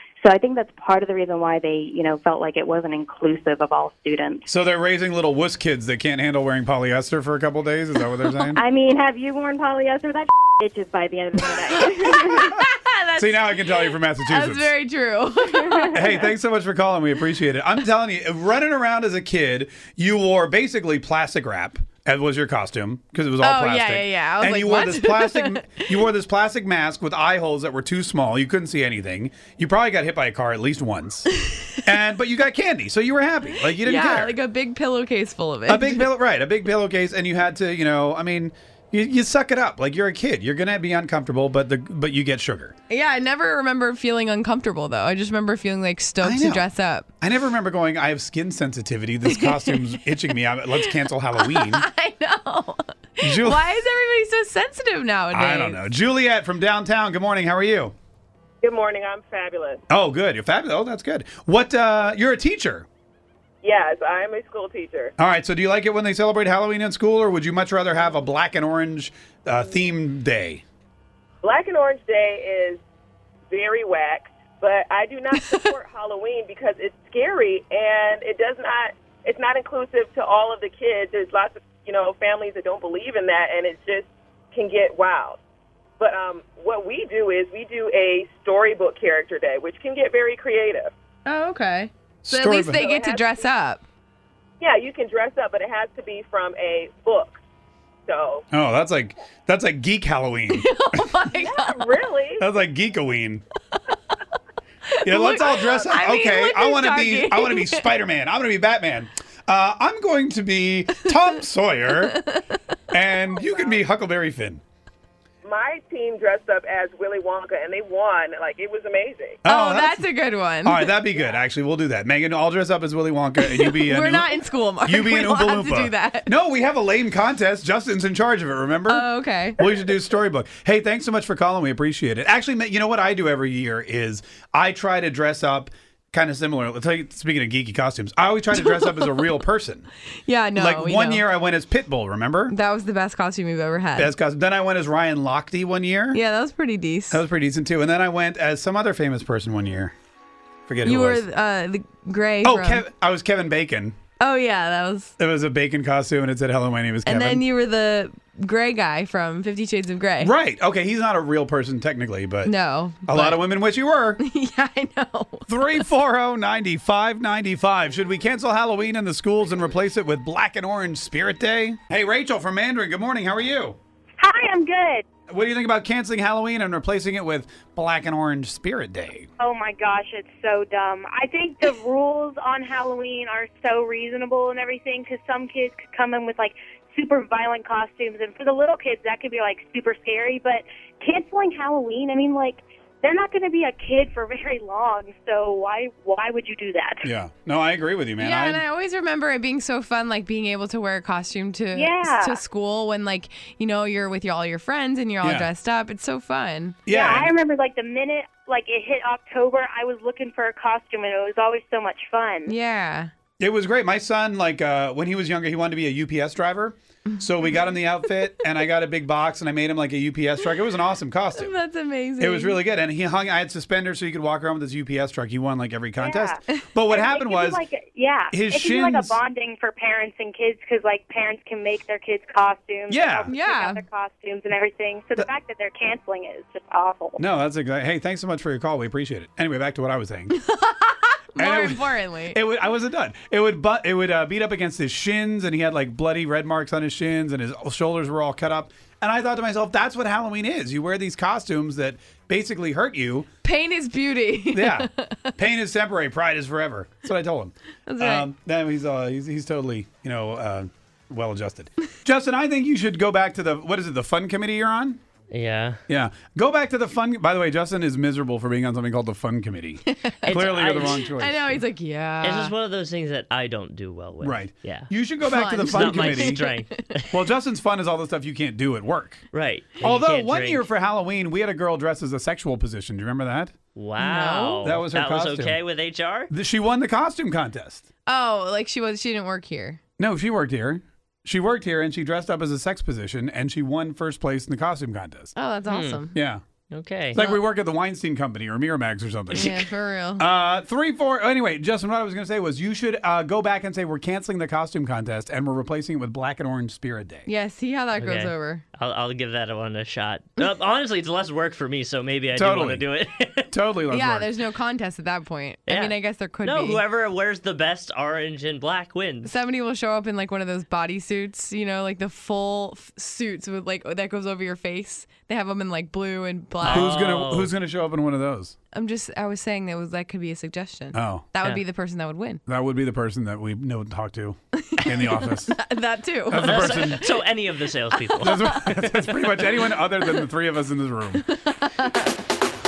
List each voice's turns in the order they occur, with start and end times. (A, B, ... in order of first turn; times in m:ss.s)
0:00.2-0:04.5 A
0:04.5-0:08.6 B
0:08.6-0:12.6 A
0:12.1-0:16.0 C
0:13.2-0:14.7 B
0:15.9-0:31.3 B
0:23.4-0:25.9 C
0:31.8-0:34.4 B
0:33.5-0:36.1 C
0:35.7-0:42.7 B
0:42.9-0:47.1 C
0:46.2-0:46.7 B
0:47.2-0:51.9 B
0:49.2-0:50.0 C
0:50.8-0:55.9 C
0:53.2-0:53.8 B
0:55.3-0:57.9 B
0:58.6-0:59.8 D
0:59.9-1:02.9 B
1:03.6-1:05.1 D
1:05.2-1:10.6 B
1:11.4-1:12.8 D
1:13.5-1:25.4 D
1:15.3-1:15.7 C
1:26.0-1:30.9 D
1:31.3-1:33.8 C
1:32.2-1:32.8 B
1:34.6-1:37.4 D
1:38.1-1:38.4 D
1:38.5-1:40.7 B
1:40.5-1:41.9 C
1:41.5-1:42.4 D
1:42.4-1:43.4 B
1:44.9-1:47.9 C
1:45.0-1:52.2 B
1:52.1-1:52.6 C
1:52.9-1:54.6 B
1:55.5-1:59.4 D
1:59.4-2:00.0 B
1:59.4-2:00.9 C
2:00.6-2:04.3 B
2:03.4-2:06.3 C
2:04.8-2:19.9 B
2:08.9-2:09.6 C
2:18.6-2:19.4 C
2:20.2-2:21.3 C
2:20.6-2:22.6 B
2:22.5-2:24.1 C
2:24.0-2:26.2 B
2:26.1-2:27.2 C
2:27.1-2:29.9 B
2:30.7-2:31.2 B
2:30.8-2:32.8 C
2:32.4-2:34.0 B
2:34.2-2:35.1 C
2:35.2-2:37.4 B
2:37.0-2:40.4 C
2:40.2-2:42.5 B
2:42.4-2:43.6 C
2:43.1-2:44.2 B
2:44.2-2:45.8 C
2:45.5-2:53.8 B
2:54.2-2:55.0 E
2:55.3-2:59.3 B
2:59.4-3:17.1 E
3:17.0-3:18.6 B
3:18.2-3:26.8 C
3:21.7-3:22.4 E
3:25.2-3:25.5 B
3:26.9-3:27.3 B
3:26.9-3:32.5 E
3:32.5-3:33.1 C
3:33.4-3:41.6 B
3:37.1-3:38.3 C
3:41.3-3:42.6 C
3:42.2-3:47.6 B
3:46.0-3:57.2 E
3:48.3-3:49.2 B
3:52.9-3:53.3 B
3:53.3-3:53.8 C
3:57.2-4:00.4 B
4:00.3-4:02.4 C
4:01.4-4:13.3 B
4:13.4-4:15.4 C
4:14.5-4:25.0 B
4:17.9-4:18.3 C
4:25.3-4:25.8 F
4:25.9-4:31.6 B
4:29.9-4:32.5 C
4:30.2-4:31.0 F
4:32.2-4:34.9 F
4:34.2-4:36.4 B
4:35.3-4:36.8 C
4:35.7-4:37.1 F
4:37.1-4:39.2 B
4:39.3-4:40.7 F
4:39.8-4:43.5 B
4:43.8-4:46.3 F
4:44.0-4:44.8 C
4:44.6-4:45.6 B
4:46.3-4:47.9 B
4:48.1-4:49.8 C
4:50.0-4:55.3 B
4:55.4-4:56.2 C
4:55.7-4:56.1 F
4:56.1-4:56.4 B
4:56.7-4:57.2 F
4:57.1-4:59.6 B
4:57.2-4:57.4 C
4:59.3-4:59.6 F
4:59.3-5:00.3 C
5:00.2-5:07.3 B
5:07.3-5:08.6 C
5:08.0-5:13.5 F
5:12.3-5:12.9 B
5:13.5-5:14.3 B
5:13.9-5:16.8 C
5:15.7-5:19.3 F
5:19.2-5:26.9 C
5:26.6-5:27.5 F
5:26.7-5:28.6 B
5:28.7-5:32.4 C
5:30.9-5:31.3 B
5:32.5-5:35.6 B
5:34.5-5:37.4 C
5:36.3-5:37.1 B
5:36.4-5:39.1 F
5:37.9-5:38.6 C
5:38.2-5:41.2 B
5:41.3-5:42.1 C